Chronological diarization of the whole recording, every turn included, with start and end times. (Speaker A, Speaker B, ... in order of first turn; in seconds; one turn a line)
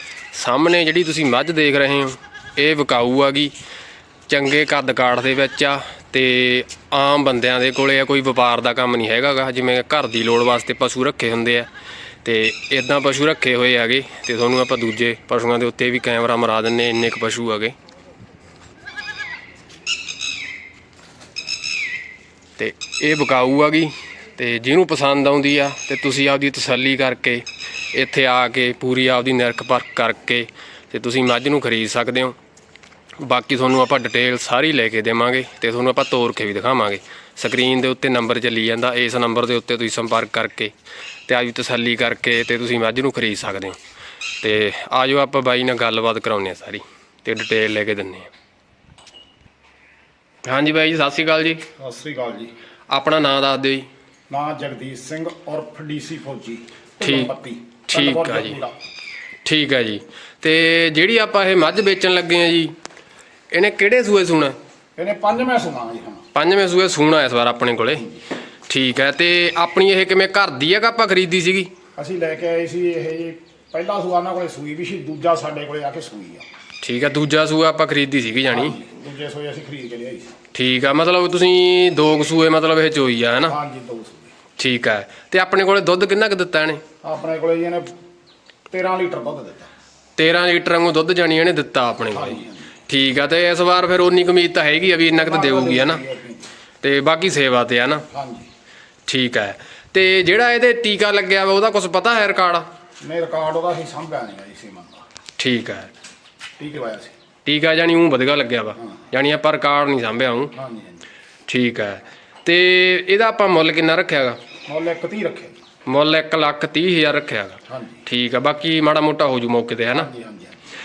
Speaker A: 0.3-3.5
Speaker A: 4.3-11.7
Speaker A: 12.2-17.8
Speaker A: 22.6-32.4
Speaker A: 33.2-40.7
Speaker A: 41.3-43.8
Speaker A: 44.4-48.3
Speaker A: 50.5-51.6
Speaker B: 51.8-52.5
Speaker A: 52.9-53.9
Speaker B: 54.3-58.8
Speaker A: 57.0-57.3
Speaker A: 57.9-58.6
Speaker A: 59.5-62.8
Speaker A: 63.5-64.6
Speaker B: 65.0-66.2
Speaker A: 66.3-68.1
Speaker A: 68.7-71.7
Speaker B: 72.0-76.5
Speaker A: 76.8-78.8
Speaker B: 78.5-80.4
Speaker A: 80.5-83.6
Speaker B: 83.5-84.3
Speaker A: 84.6-86.8
Speaker B: 87.0-87.9
Speaker B: 88.7-89.7
Speaker A: 90.2-96.0
Speaker B: 92.1-92.7
Speaker B: 95.1-96.5
Speaker A: 96.8-98.1
Speaker B: 98.1-98.5
Speaker A: 99.1-102.7
Speaker B: 103.0-105.0
Speaker A: 105.4-105.9
Speaker B: 106.6-107.1
Speaker A: 107.5-110.5
Speaker B: 110.5-111.0
Speaker A: 111.5-114.4
Speaker B: 114.7-115.6
Speaker A: 115.9-120.1
Speaker B: 117.7-118.0
Speaker B: 119.9-120.6